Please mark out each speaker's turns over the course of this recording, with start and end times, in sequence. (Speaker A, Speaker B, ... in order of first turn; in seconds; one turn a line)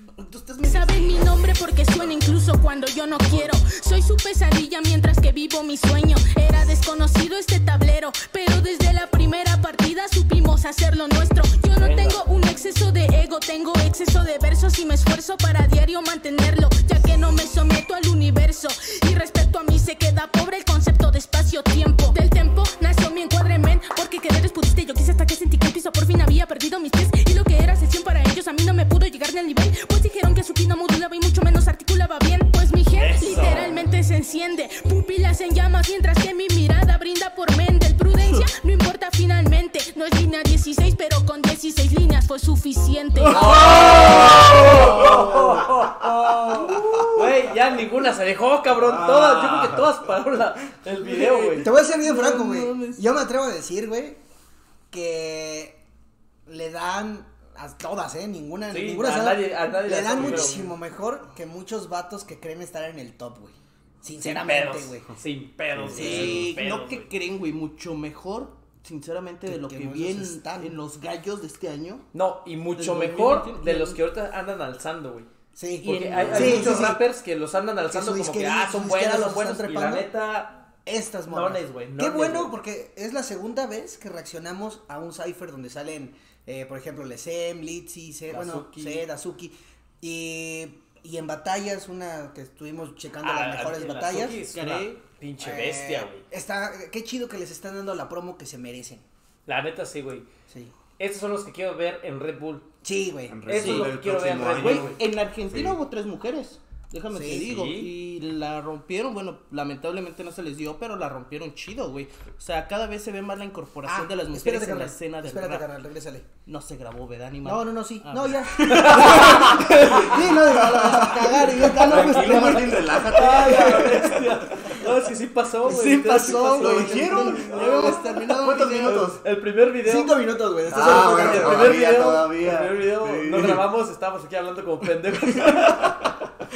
Speaker A: 0.2-1.5
Speaker B: 0.6-43.7
Speaker C: 3.2-3.5
Speaker C: 11.7-12.2
Speaker C: 32.9-33.8
Speaker C: 43.3-51.7
Speaker D: 43.4-45.7
Speaker A: 44.7-45.3
Speaker A: 46.3-47.2
Speaker D: 46.7-47.0
Speaker D: 48.7-50.1
Speaker A: 50.9-53.2
Speaker E: 51.6-54.2
Speaker E: 54.9-55.8
Speaker E: 56.5-65.1
Speaker C: 58.7-60.7
Speaker C: 64.2-67.1
Speaker D: 65.7-66.5
Speaker E: 65.9-66.5
Speaker A: 65.9-72.0
Speaker E: 69.4-70.8
Speaker C: 72.1-80.6
Speaker A: 72.7-74.0
Speaker E: 75.5-77.0
Speaker A: 76.2-76.8
Speaker E: 77.9-80.1
Speaker E: 80.8-94.4
Speaker C: 81.2-82.5
Speaker A: 88.3-89.0
Speaker C: 88.3-88.6
Speaker C: 93.2-96.2
Speaker A: 94.5-95.0
Speaker E: 95.4-99.0
Speaker C: 99.5-100.3
Speaker C: 101.0-102.7
Speaker E: 102.8-103.4
Speaker D: 103.3-105.8
Speaker C: 103.5-105.0
Speaker A: 103.6-115.7
Speaker E: 107.1-107.5
Speaker C: 107.4-107.9
Speaker E: 113.8-116.3
Speaker A: 116.5-124.0
Speaker E: 117.4-123.5
Speaker D: 120.5-121.4
Speaker C: 121.9-127.8
Speaker D: 121.9-123.9
Speaker A: 125.6-129.1
Speaker D: 126.5-129.2
Speaker C: 128.9-130.2
Speaker E: 129.8-131.9
Speaker D: 130.7-133.7
Speaker C: 130.7-136.2